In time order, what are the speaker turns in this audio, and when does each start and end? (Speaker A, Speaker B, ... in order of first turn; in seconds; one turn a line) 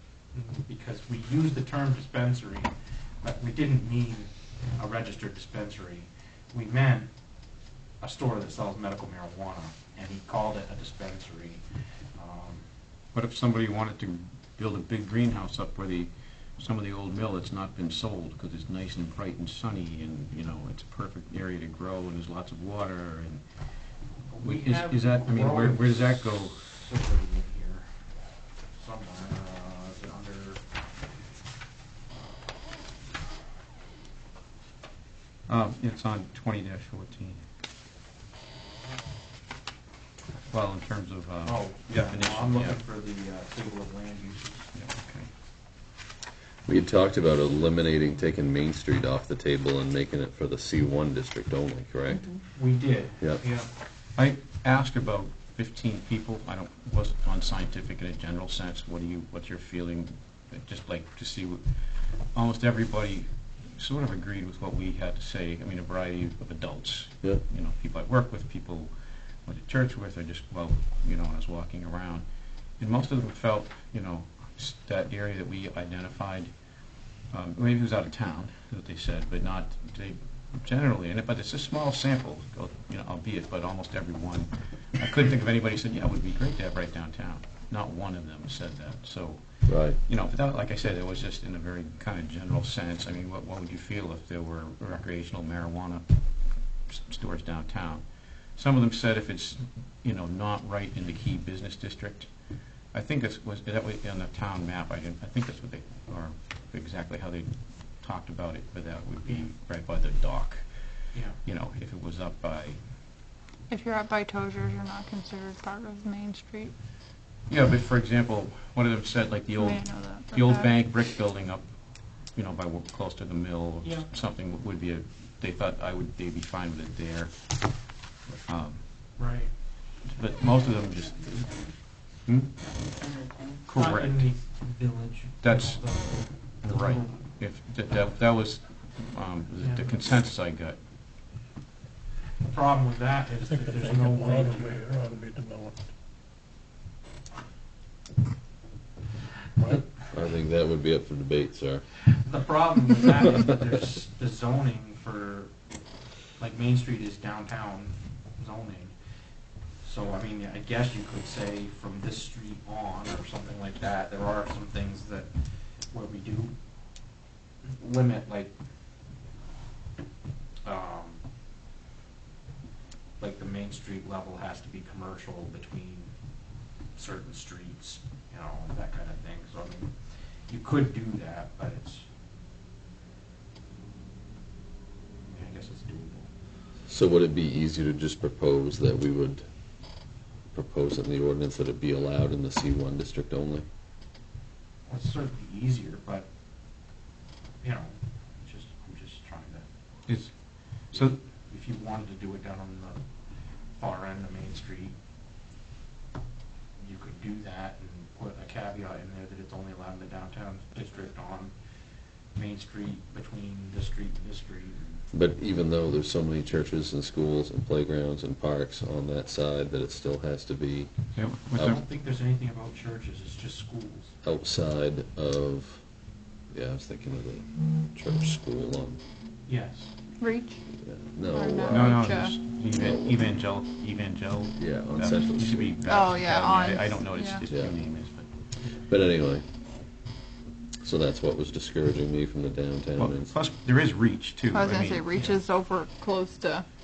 Speaker A: 0.3-7.1
Speaker A: 8.0-12.7
Speaker B: 13.1-23.6
Speaker A: 24.3-28.1
Speaker B: 24.4-26.7
Speaker A: 28.7-30.6
Speaker A: 32.1-32.5
Speaker B: 35.5-37.4
Speaker B: 40.5-42.8
Speaker A: 41.5-44.7
Speaker B: 44.7-45.3
Speaker C: 46.7-52.3
Speaker A: 52.5-53.7
Speaker B: 54.2-68.9
Speaker B: 69.4-72.3
Speaker B: 72.8-76.5
Speaker B: 77.3-102.3
Speaker C: 89.7-90.0
Speaker B: 102.9-112.8
Speaker A: 111.1-111.4
Speaker D: 113.7-116.7
Speaker B: 117.5-128.0
Speaker D: 119.5-120.8
Speaker A: 123.8-124.1
Speaker B: 128.5-129.3
Speaker A: 129.2-129.5
Speaker B: 130.0-132.6
Speaker B: 133.7-134.3
Speaker A: 133.7-137.1
Speaker B: 135.4-140.8
Speaker A: 139.6-139.9
Speaker A: 142.4-144.8
Speaker E: 143.7-145.8
Speaker C: 150.1-152.1
Speaker A: 152.1-155.5
Speaker A: 156.3-159.0
Speaker A: 159.8-166.6
Speaker A: 167.6-168.5
Speaker A: 170.6-171.2
Speaker A: 173.2-176.1
Speaker A: 176.9-182.1
Speaker A: 185.2-186.3
Speaker C: 186.9-189.4
Speaker C: 190.5-193.7
Speaker A: 194.9-196.3
Speaker A: 197.6-199.7
Speaker B: 200.1-201.2
Speaker A: 200.9-203.0
Speaker A: 203.8-205.0
Speaker A: 206.8-211.5
Speaker A: 212.3-215.0
Speaker C: 215.1-221.8
Speaker B: 221.2-221.8
Speaker A: 221.6-224.2
Speaker C: 224.2-225.9
Speaker C: 226.5-229.0
Speaker A: 229.5-229.9
Speaker D: 230.2-230.6
Speaker C: 230.8-232.0
Speaker D: 231.2-232.4
Speaker B: 231.7-238.3
Speaker C: 232.7-233.4
Speaker C: 234.6-235.8
Speaker D: 235.9-237.4
Speaker C: 237.5-237.8
Speaker C: 238.8-239.5
Speaker C: 240.8-243.3
Speaker B: 243.0-245.2
Speaker D: 244.5-246.7